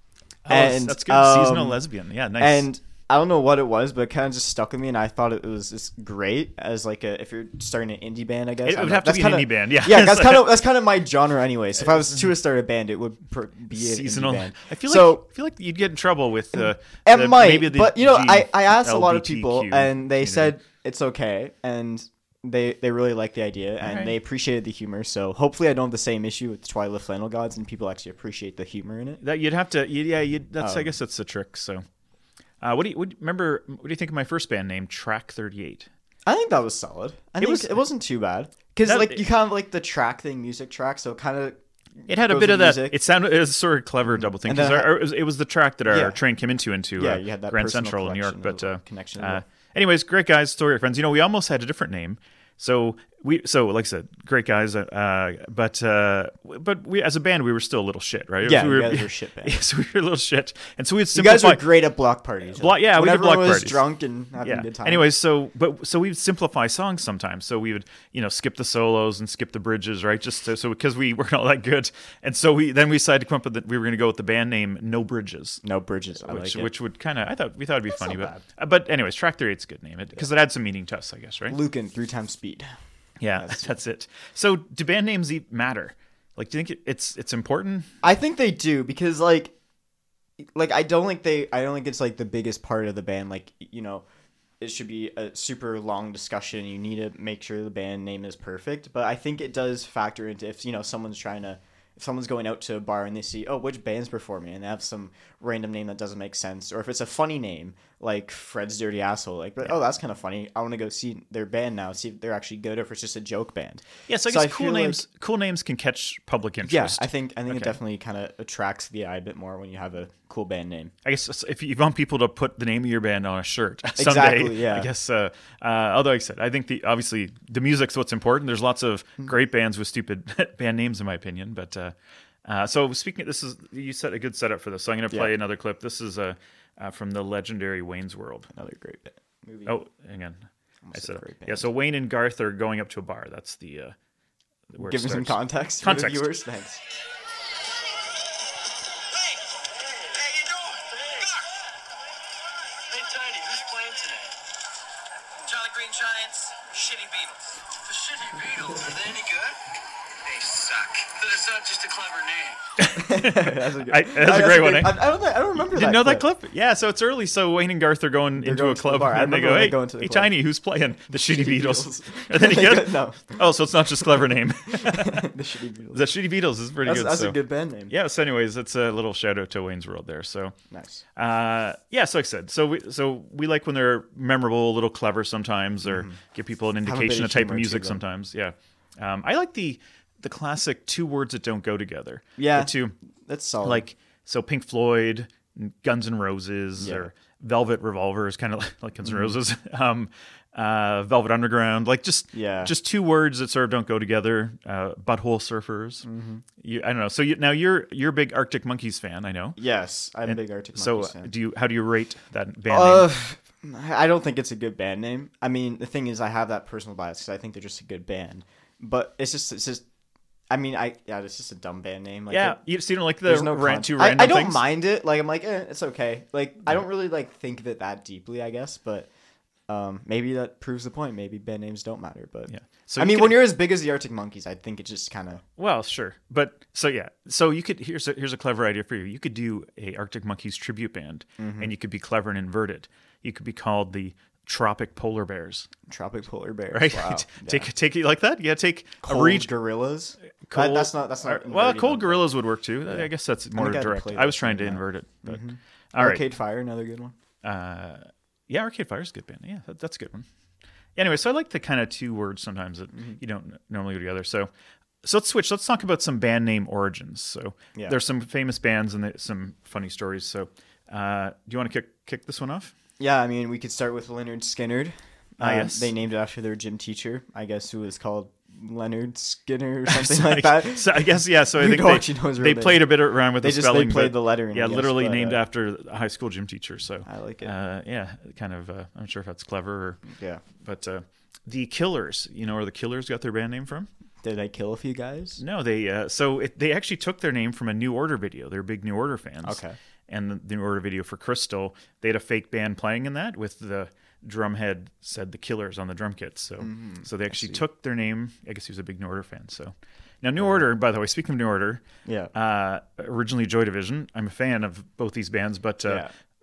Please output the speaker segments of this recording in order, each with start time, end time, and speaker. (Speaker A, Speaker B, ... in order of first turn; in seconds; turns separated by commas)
Speaker A: 0.4-2.7, Speaker B: 0.5-1.8, Speaker B: 2.4-15.2, Speaker A: 8.6-10.5, Speaker A: 13.7-20.5, Speaker B: 17.0-29.2, Speaker A: 23.8-24.1, Speaker A: 29.2-31.8, Speaker B: 30.6-30.9, Speaker A: 32.6-35.9, Speaker B: 36.2-43.0, Speaker A: 37.4-37.8, Speaker A: 38.8-39.2, Speaker A: 42.1-61.6, Speaker B: 44.1-45.0, Speaker B: 45.9-46.2, Speaker B: 47.0-49.4, Speaker B: 58.4-59.6, Speaker B: 61.1-65.1, Speaker A: 62.5-63.8, Speaker A: 64.4-75.6, Speaker B: 75.6-76.7, Speaker A: 76.2-81.6, Speaker B: 77.9-78.4, Speaker B: 81.5-82.7, Speaker A: 83.2-87.9, Speaker B: 83.3-83.7, Speaker B: 88.0-89.5, Speaker B: 90.4-94.0, Speaker B: 94.6-115.0, Speaker A: 114.1-117.8, Speaker B: 116.6-120.9, Speaker A: 121.0-138.5, Speaker B: 124.0-124.9, Speaker B: 138.5-139.7, Speaker A: 139.7-143.9, Speaker B: 140.9-141.7, Speaker A: 144.7-146.3, Speaker B: 144.8-146.8, Speaker C: 152.9-154.3, Speaker C: 155.5-159.6, Speaker C: 160.2-162.6, Speaker A: 162.8-164.9, Speaker B: 162.9-166.2, Speaker A: 165.7-175.3, Speaker B: 168.4-170.3, Speaker B: 171.1-173.4, Speaker B: 174.7-176.1, Speaker A: 175.9-177.4, Speaker B: 176.8-177.9, Speaker A: 177.9-180.5, Speaker B: 180.7-181.0, Speaker A: 181.2-192.9, Speaker B: 185.8-186.2, Speaker B: 186.8-188.0, Speaker B: 192.4-192.7, Speaker B: 193.2-193.8, Speaker A: 193.6-206.1, Speaker B: 196.8-197.1, Speaker B: 199.0-199.4, Speaker B: 202.3-202.7, Speaker B: 206.0-206.4, Speaker A: 206.6-209.6, Speaker B: 209.6-211.3, Speaker A: 210.3-213.1, Speaker B: 212.7-219.8, Speaker B: 220.5-222.6, Speaker A: 222.3-224.6, Speaker B: 223.2-229.1, Speaker B: 229.7-235.4, Speaker A: 232.5-233.5, Speaker A: 235.6-245.7, Speaker B: 241.4-241.7, Speaker B: 245.9-247.7, Speaker A: 246.7-249.5, Speaker B: 249.0-252.2, Speaker A: 250.5-256.2, Speaker B: 252.9-257.1, Speaker A: 257.4-260.3, Speaker A: 260.9-264.5, Speaker A: 265.0-272.7, Speaker B: 273.0-285.4, Speaker A: 275.4-275.9, Speaker A: 279.9-290.1, Speaker B: 287.1-287.5, Speaker B: 290.1-290.4, Speaker A: 290.6-293.9, Speaker B: 294.2-295.4, Speaker A: 295.4-316.0, Speaker B: 299.4-299.8, Speaker B: 306.6-307.6, Speaker B: 312.0-312.3